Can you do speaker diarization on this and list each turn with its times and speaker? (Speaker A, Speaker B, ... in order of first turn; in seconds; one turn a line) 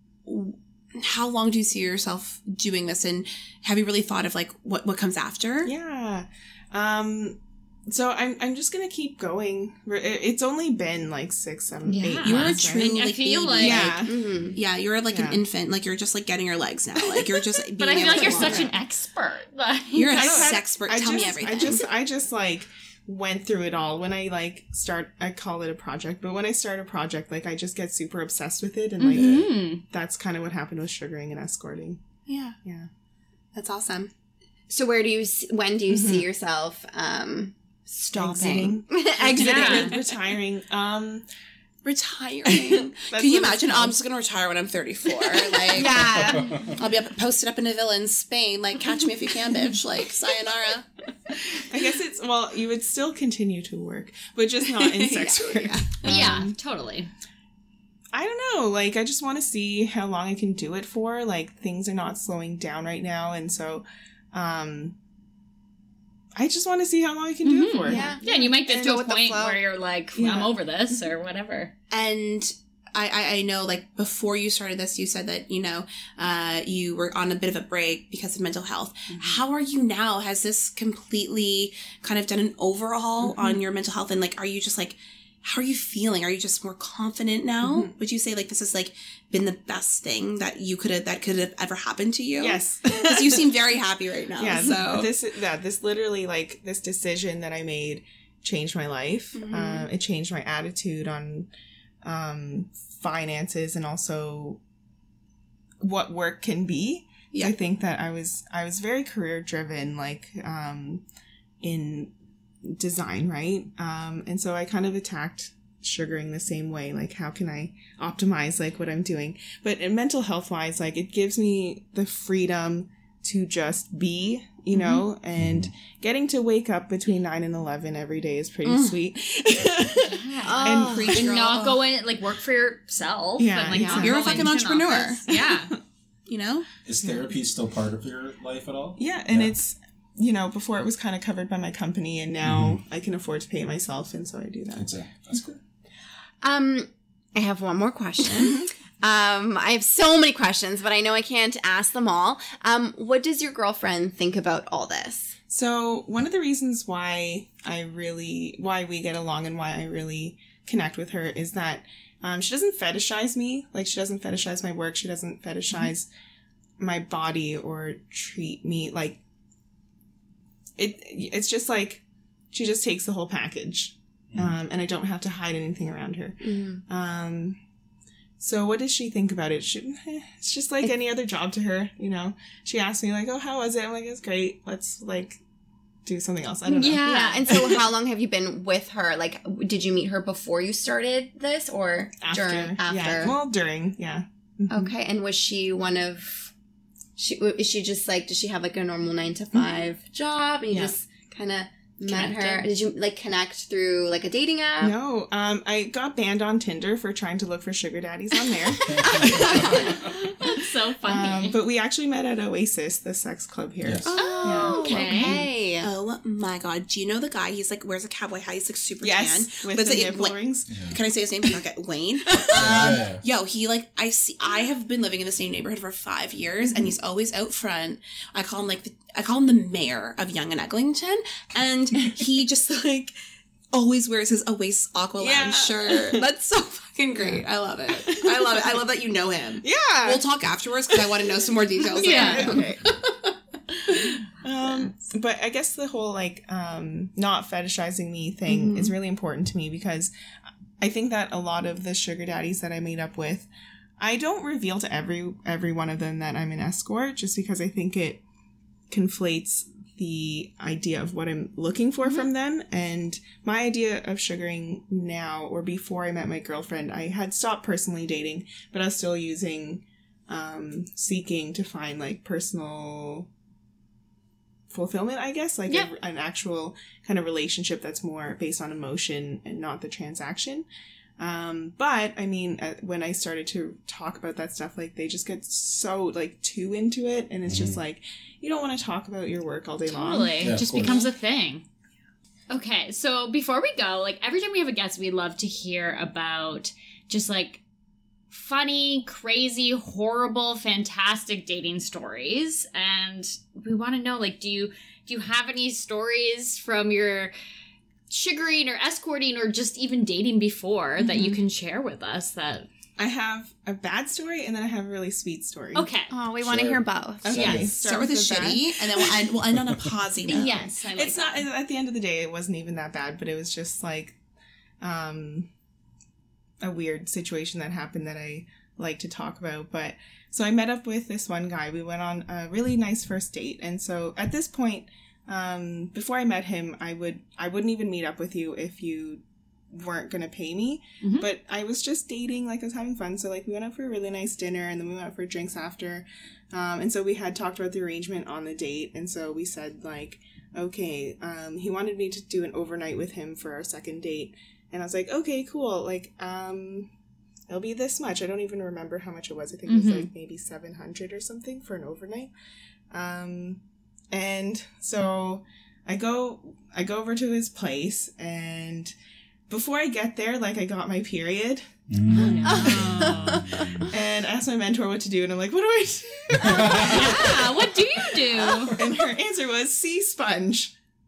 Speaker A: 0.3-5.7
Speaker B: 5.7-12.9
Speaker C: 11.9-13.9
Speaker A: 12.2-18.7
Speaker B: 13.6-14.2
Speaker D: 14.1-14.6
Speaker B: 15.1-15.4
Speaker C: 17.8-20.5
Speaker B: 18.1-18.7
Speaker D: 18.3-18.5
Speaker A: 19.9-21.9
Speaker B: 20.1-32.0
Speaker C: 29.0-29.8
Speaker E: 29.2-29.5
Speaker A: 32.3-32.6
Speaker B: 32.6-32.9
Speaker A: 33.5-34.1
Speaker D: 34.7-40.0
Speaker B: 35.9-36.2
Speaker B: 38.2-41.2
Speaker C: 39.4-40.0
Speaker A: 41.8-46.1
Speaker B: 42.5-44.0
Speaker D: 45.7-46.7
Speaker E: 46.1-46.8
Speaker A: 46.7-50.9
Speaker B: 51.3-56.6
Speaker A: 54.7-56.0
Speaker C: 56.0-57.1
Speaker B: 58.1-65.0
Speaker B: 66.4-69.0
Speaker C: 67.4-71.7
Speaker D: 67.9-69.6
Speaker B: 70.2-71.0
Speaker A: 71.9-95.1
Speaker B: 79.1-79.4
Speaker B: 83.2-83.6
Speaker B: 87.6-87.9
Speaker B: 92.4-93.5
Speaker B: 94.4-101.5
Speaker A: 99.3-99.9
Speaker B: 102.0-104.6
Speaker B: 105.8-111.0
Speaker B: 111.6-112.1
Speaker B: 112.6-131.3
Speaker E: 125.4-125.7
Speaker A: 128.7-129.0
Speaker C: 130.0-135.7
Speaker D: 130.4-131.2
Speaker A: 130.7-131.8
Speaker B: 133.4-134.6
Speaker D: 133.7-134.1
Speaker A: 133.7-135.3
Speaker B: 135.3-135.6
Speaker A: 136.3-136.7
Speaker E: 136.8-139.5
Speaker B: 137.0-137.3
Speaker B: 139.0-145.4
Speaker E: 142.4-142.8
Speaker E: 144.8-145.6
Speaker D: 146.4-155.4
Speaker B: 155.5-166.1
Speaker B: 166.8-169.2
Speaker B: 170.8-177.6
Speaker E: 174.3-174.6
Speaker D: 176.4-176.8
Speaker B: 178.4-185.4
Speaker B: 186.1-187.8
Speaker C: 186.7-187.4
Speaker D: 186.7-193.4
Speaker B: 192.2-194.9
Speaker D: 194.7-196.5
Speaker D: 197.2-205.0
Speaker B: 199.5-199.9
Speaker C: 202.1-202.7
Speaker B: 204.8-210.0
Speaker D: 208.4-210.1
Speaker E: 208.9-210.0
Speaker C: 209.2-211.6
Speaker B: 211.0-215.5
Speaker E: 213.8-214.1
Speaker D: 214.1-215.9
Speaker C: 214.1-215.4
Speaker A: 215.8-220.4
Speaker B: 219.0-220.8
Speaker E: 220.7-221.0
Speaker A: 220.9-233.1
Speaker B: 222.4-222.9
Speaker E: 222.5-223.2
Speaker A: 233.7-242.6
Speaker B: 235.2-236.2
Speaker B: 237.2-237.4
Speaker B: 238.0-238.8
Speaker B: 239.6-240.2
Speaker B: 240.9-243.0
Speaker C: 242.0-242.6
Speaker B: 243.9-250.1
Speaker A: 248.5-248.9
Speaker B: 250.8-253.5
Speaker B: 254.0-258.2
Speaker B: 258.9-273.3
Speaker B: 274.7-280.7
Speaker B: 281.2-291.0
Speaker E: 287.5-287.8
Speaker C: 289.9-291.6
Speaker E: 290.4-291.1
Speaker C: 292.5-297.6
Speaker C: 298.3-307.3
Speaker C: 308.1-312.7
Speaker B: 313.0-315.9
Speaker C: 315.7-316.1
Speaker D: 316.1-317.3
Speaker E: 316.4-317.8
Speaker B: 317.2-319.3
Speaker A: 317.5-320.6
Speaker E: 319.6-319.9
Speaker C: 320.3-321.5
Speaker B: 320.3-324.2
Speaker B: 324.8-325.5
Speaker B: 326.6-356.9
Speaker C: 341.0-341.3
Speaker B: 357.5-362.3
Speaker C: 359.7-360.1
Speaker B: 362.9-368.9
Speaker B: 369.5-373.1
Speaker E: 371.9-373.9
Speaker C: 372.1-373.4
Speaker D: 372.4-373.9
Speaker B: 373.9-380.7
Speaker E: 376.4-377.2
Speaker C: 376.8-378.8